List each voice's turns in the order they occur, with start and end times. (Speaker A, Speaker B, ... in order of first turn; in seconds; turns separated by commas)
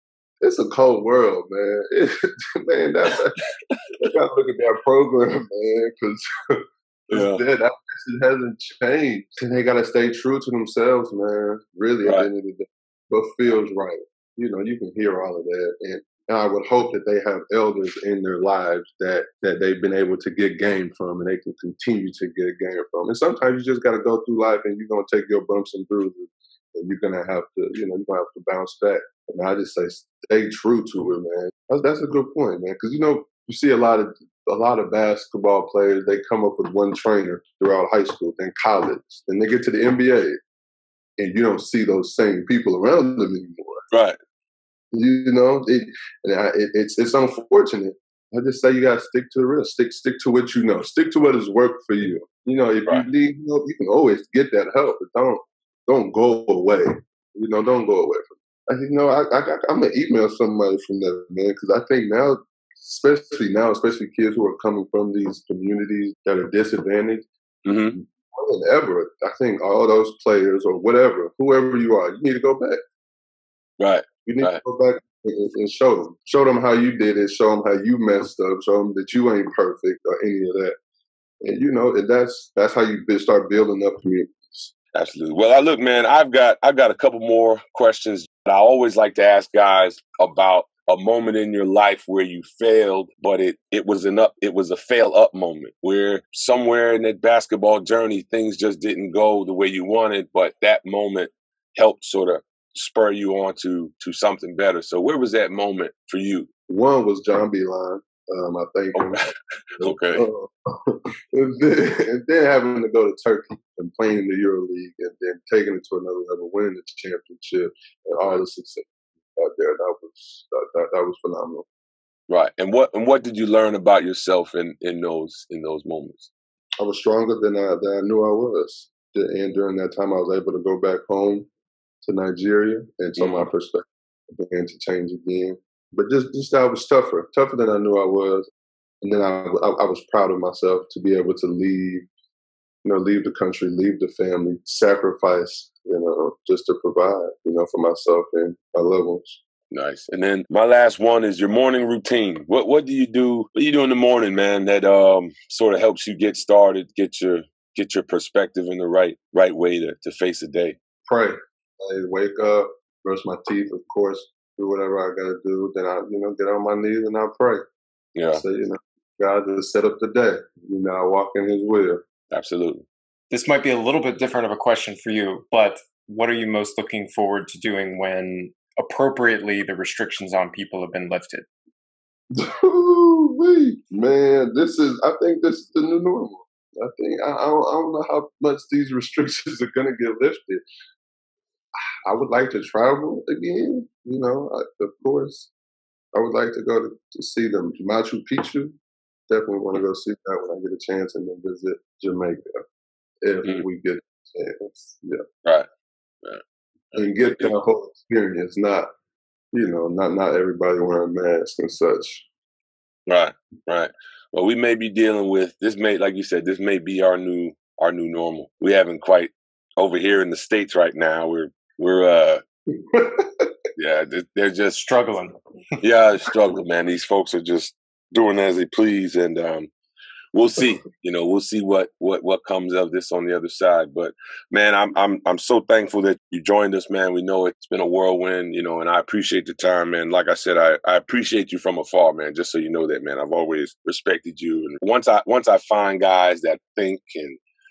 Speaker A: 0.4-3.5, Speaker A: 4.0-40.4, Speaker B: 7.1-7.4, Speaker A: 41.2-43.9, Speaker B: 43.9-44.2, Speaker A: 44.9-67.3, Speaker B: 67.7-68.0, Speaker A: 67.9-72.8, Speaker B: 73.8-74.6, Speaker A: 74.2-80.8, Speaker A: 81.4-84.7, Speaker B: 84.9-106.5, Speaker A: 106.7-121.7, Speaker B: 109.0-110.2, Speaker B: 122.3-126.3, Speaker A: 126.8-131.5, Speaker A: 132.0-138.5, Speaker B: 133.2-133.5, Speaker A: 139.0-142.1, Speaker A: 142.8-149.4, Speaker B: 149.7-160.8, Speaker A: 161.1-167.7, Speaker B: 168.2-168.4, Speaker A: 168.3-172.0, Speaker B: 172.3-172.8, Speaker C: 173.3-181.5, Speaker A: 182.3-190.6, Speaker A: 192.1-195.5, Speaker A: 196.1-198.8, Speaker A: 199.3-202.6, Speaker A: 203.2-205.2, Speaker B: 206.9-207.5, Speaker A: 206.9-208.9, Speaker A: 209.5-212.2, Speaker B: 213.1-222.4, Speaker A: 222.9-223.5, Speaker B: 223.8-224.9, Speaker C: 224.8-225.3, Speaker B: 225.8-229.7, Speaker B: 230.3-247.4